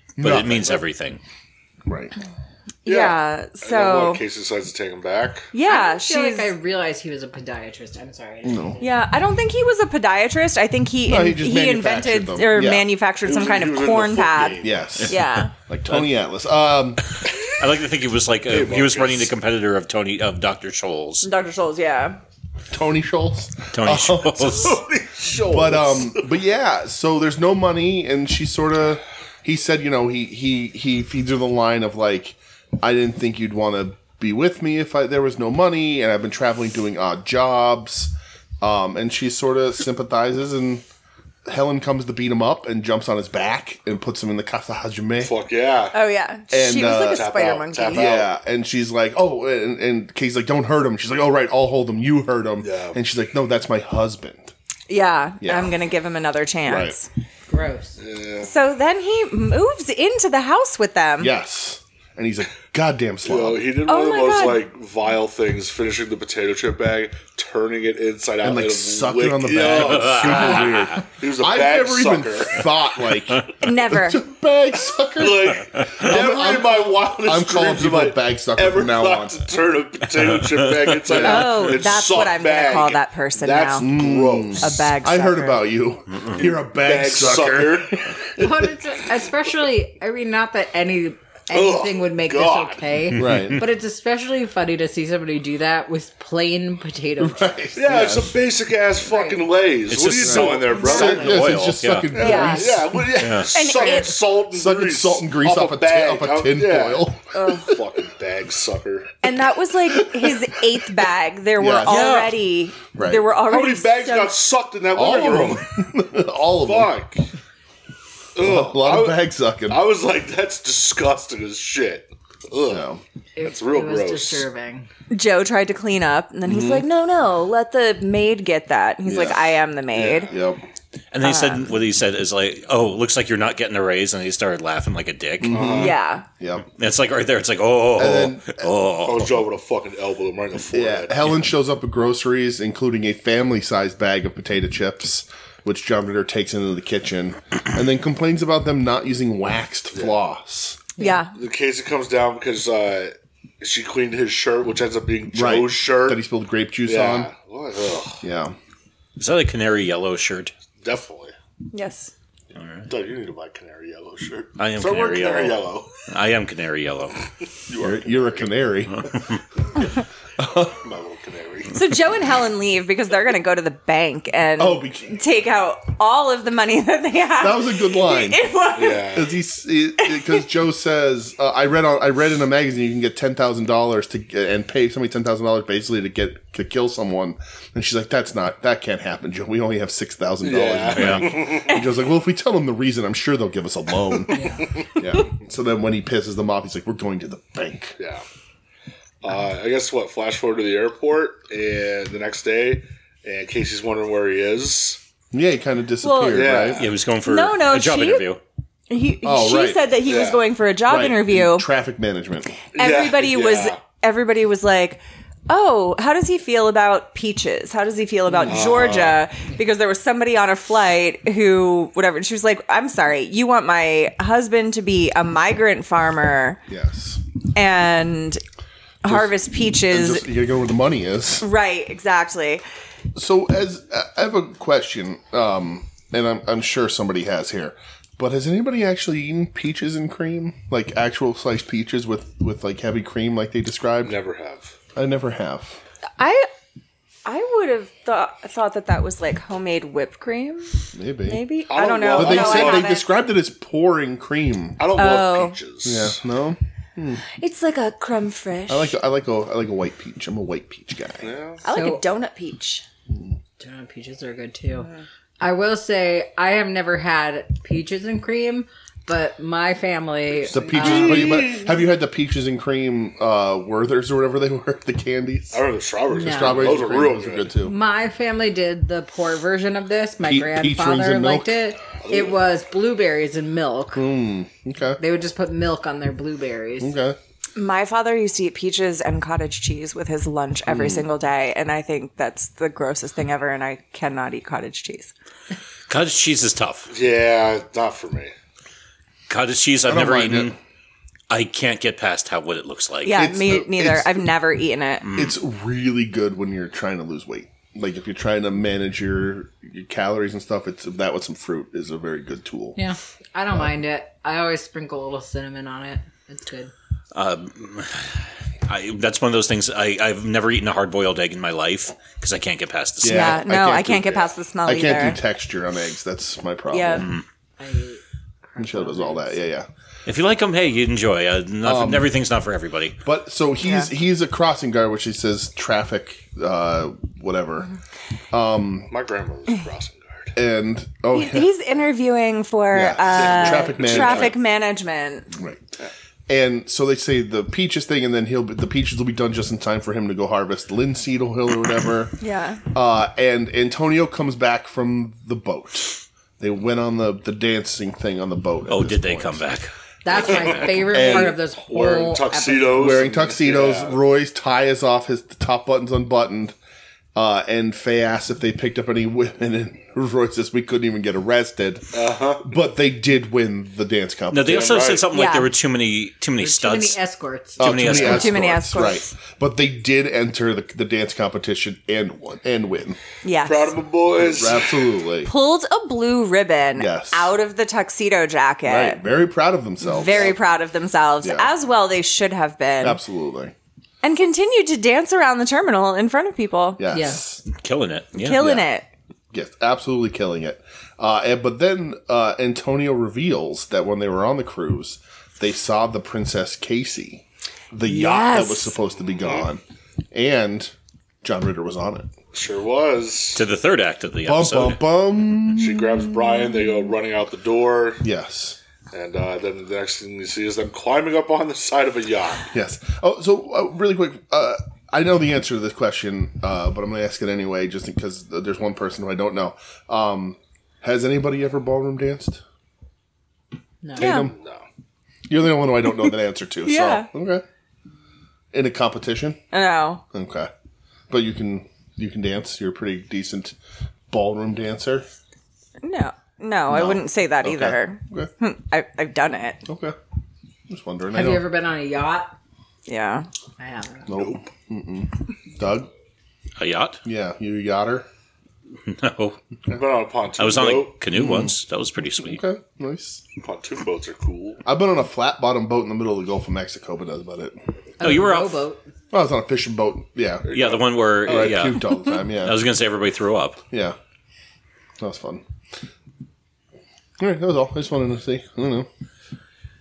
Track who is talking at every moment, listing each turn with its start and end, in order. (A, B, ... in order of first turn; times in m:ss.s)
0:00.2-0:00.8 A
0:00.2-0:01.2 B
0:01.8-0:02.1 A
0:02.8-0:04.2 C
0:02.8-0:05.5 D
0:05.5-0:06.5 C
0:05.6-0:08.9 E
0:08.4-0:08.8 A
0:08.8-0:15.5 C
0:11.0-0:12.9 A
0:13.2-0:14.8 D
0:14.6-0:15.2 A
0:15.7-0:17.0 A
0:17.5-0:21.2 B
0:18.5-0:19.3 D
0:21.2-0:22.2 C
0:22.7-0:24.8 A
0:23.7-0:24.8 B
0:24.5-0:26.3 D
0:25.4-0:40.8 A
0:41.4-0:45.3 A
0:45.2-0:46.0 D
0:45.9-0:48.1 C
0:46.5-0:47.3 A
0:47.0-0:48.3 D
0:47.9-0:54.5 A
0:52.6-0:53.0 D
0:54.9-0:57.1 C
0:55.4-0:55.7 A
0:56.6-0:57.0 A
0:57.5-0:58.0 E
0:58.0-0:58.5 D
0:58.4-1:01.3 C
1:01.2-1:03.6 A
1:03.2-1:12.6 D
1:03.8-1:04.6 C
1:08.4-1:19.4 A
1:09.9-1:10.8 B
1:13.6-1:14.2 C
1:15.1-1:24.8 D
1:21.1-1:23.9 C
1:21.1-1:21.5 A
1:23.8-1:28.7 A
1:24.6-1:25.6 C
1:26.7-1:28.0 D
1:28.4-1:37.7 E
1:31.5-1:32.9 D
1:33.1-1:33.6 A
1:33.3-1:33.5 B
1:37.2-1:38.4 A
1:37.8-1:41.5 D
1:39.0-1:39.5 E
1:39.9-1:42.3 B
1:40.2-1:43.0 A
1:40.8-1:41.1 C
1:40.8-1:41.2 E
1:42.1-1:49.2 D
1:42.2-1:43.0 C
1:43.2-1:43.5 B
1:43.5-1:44.2 C
1:44.5-1:47.2 A
1:47.3-1:47.7 C
1:49.2-1:54.4 C
1:51.6-1:52.2 A
1:51.8-1:52.3 B
1:52.9-1:53.3 A
1:53.4-1:55.6 D
1:54.9-1:56.9 A
1:56.6-1:57.2 D
1:58.3-2:02.9 D
1:58.4-1:59.8 A
2:02.7-2:03.0 A
2:03.4-2:04.9 E
2:03.4-2:04.5 D
2:05.1-2:10.3 C
2:06.4-2:06.8 A
2:09.0-2:09.6 A
2:09.9-2:10.5 D
2:10.3-2:10.6 A
2:11.1-2:15.6 B
2:11.2-2:11.6 C
2:15.4-2:16.7 A
2:15.5-2:16.0 D
2:15.7-2:16.2 C
2:16.8-2:19.3 B
2:18.0-2:18.7 A
2:19.0-2:21.4 D
2:20.7-2:30.8 A
2:31.0-2:31.2 E
2:31.0-2:31.3 C
2:31.3-2:36.2 D
2:35.3-2:37.3 A
2:36.8-2:38.2 D
2:38.2-2:38.6 A
2:39.2-2:40.5 B
2:40.8-2:41.3 D
2:41.7-2:42.1 C
2:42.6-2:42.9 B
2:42.9-2:46.0 D
2:44.6-2:47.2 B
2:47.7-2:48.5 D
2:47.8-2:49.2 A
2:50.4-2:50.9 A
2:50.8-2:51.8 D
2:51.7-2:59.2 C
2:54.6-2:55.2 A
2:57.4-2:58.4 A
2:58.7-2:59.3 D
2:59.1-3:18.0 A
3:00.0-3:00.4 C
3:10.4-3:11.8 D
3:10.9-3:11.3 B
3:14.3-3:14.8 E
3:14.5-3:15.0 D
3:18.0-3:18.2 D
3:19.2-3:25.0 D
3:25.3-3:26.9 A
3:26.0-3:26.7 C
3:26.3-3:26.9 D
3:26.8-3:28.4 B
3:27.2-3:28.2 C
3:28.9-3:31.7 C
3:29.2-3:29.9 A
3:30.0-3:30.4 D
3:30.9-3:32.6 A
3:32.7-3:33.8 D
3:32.8-3:46.6 C
3:38.5-3:39.2 D
3:46.7-3:47.2 A
3:47.5-3:48.4 C
3:49.0-3:50.3 C
3:49.0-3:51.4 A
3:51.4-3:52.6 C
3:53.1-4:04.2 A
4:04.0-4:04.7 D
4:04.9-4:05.8 A
4:06.2-4:06.5 C
4:07.2-4:13.1 C
4:10.9-4:11.4 A
4:11.7-4:12.9 D
4:12.1-4:14.9 A
4:14.8-4:16.2 D
4:14.9-4:15.6 C
4:15.8-4:17.2 A
4:17.4-4:19.0 C
4:18.7-4:21.3 A
4:21.2-4:21.6 D
4:21.6-4:22.8 C
4:21.7-4:22.0 E
4:23.6-4:24.9 E
4:25.4-4:31.5 E
4:30.5-4:37.7 A
4:30.5-4:31.7 D
4:35.5-4:37.5 D
4:36.1-4:36.8 E
4:37.6-4:44.1 E
4:40.2-4:41.6 A
4:42.0-4:42.4 D
4:43.9-4:45.0 A
4:45.0-4:46.9 E
4:46.8-4:47.2 A
4:47.6-4:55.1 C
4:50.7-4:51.0 A
4:55.9-4:56.9 B
4:56.9-4:58.3 D
4:59.3-5:00.5 B
4:59.8-5:00.6 A
5:01.3-5:03.2 B
5:03.0-5:05.0 C
5:03.1-5:04.2 A
5:05.0-5:05.4 B
5:05.1-5:12.8 A
5:12.8-5:16.7 E
5:17.1-5:23.4 B
5:23.0-5:27.1 A
5:23.0-5:25.2 C
5:26.7-5:27.1 C
5:27.6-5:29.4 E
5:28.6-5:29.7 A
5:30.0-5:33.0 B
5:31.6-5:32.1 A
5:33.0-5:37.7 A
5:33.6-5:33.9 C
5:38.3-5:38.9 A
5:38.9-5:40.3 D
5:40.4-5:41.5 A
5:41.1-5:45.3 C
5:42.7-5:44.3 A
5:43.1-5:44.3 D
5:45.3-5:45.7 A
5:46.3-5:52.2 A
5:52.2-5:52.6 C
5:52.7-5:59.4 A
5:58.7-5:59.7 B
6:00.0-6:02.8 E
6:00.2-6:04.0 D
6:00.2-6:01.4 A
6:02.7-6:06.6 A
6:07.1-6:14.9 A
6:11.9-6:12.5 D
6:14.3-6:17.0 B
6:14.4-6:15.1 D
6:15.1-6:15.5 C
6:16.4-6:17.6 E
6:17.6-6:18.4 B
6:17.6-6:23.0 A
6:17.9-6:19.1 C
6:23.2-6:23.7 C
6:23.4-6:24.8 D
6:24.3-6:25.3 A
6:25.2-6:29.0 C
6:26.8-6:27.3 A
6:28.6-6:30.4 A
6:29.8-6:33.0 C
6:31.2-6:31.5 A
6:32.8-6:33.5 A
6:34.0-6:36.8 C
6:36.8-6:37.4 A
6:36.9-6:37.2 E
6:37.5-6:38.4 B
6:38.2-6:38.9 C
6:38.3-6:38.6 A
6:39.3-6:49.6 A
6:47.8-6:48.7 C
6:50.1-6:52.1 A
6:52.3-6:53.4 D
6:53.4-6:54.8 B
6:54.2-6:55.7 A
6:55.5-6:58.0 D
6:58.0-6:58.6 A
6:58.9-7:02.5 D
7:02.5-7:12.4 A
7:13.8-7:14.2 E
7:14.0-7:14.4 A
7:14.0-7:14.3 C
7:14.3-7:14.6 D
7:15.3-7:17.4 A
7:16.6-7:17.1 C
7:18.5-7:19.4 A
7:19.5-7:20.0 C
7:20.1-7:20.5 A
7:21.1-7:23.6 A
7:24.1-7:25.0 A
7:25.8-7:29.6 C
7:26.7-7:28.3 A
7:29.7-7:30.0 A
7:30.7-7:31.5 A
7:31.1-7:32.3 E
7:32.9-7:33.3 C
7:33.6-7:34.1 E
7:34.1-7:35.9 A
7:36.6-7:37.0 B
7:37.0-7:38.0 A
7:38.8-7:39.4 B
7:39.7-7:41.0 D
7:40.4-7:42.4 B
7:41.1-7:41.5 A
7:42.2-7:43.2 A
7:43.4-7:44.6 D
7:44.6-7:48.1 A
7:48.0-7:48.8 E
7:48.0-7:48.6 B
7:49.1-7:50.5 A
7:50.4-7:51.4 D
7:50.5-7:53.6 B
7:51.2-7:52.6 A
7:53.7-7:54.0 A
7:55.0-7:55.4 A
7:57.2-7:58.9 A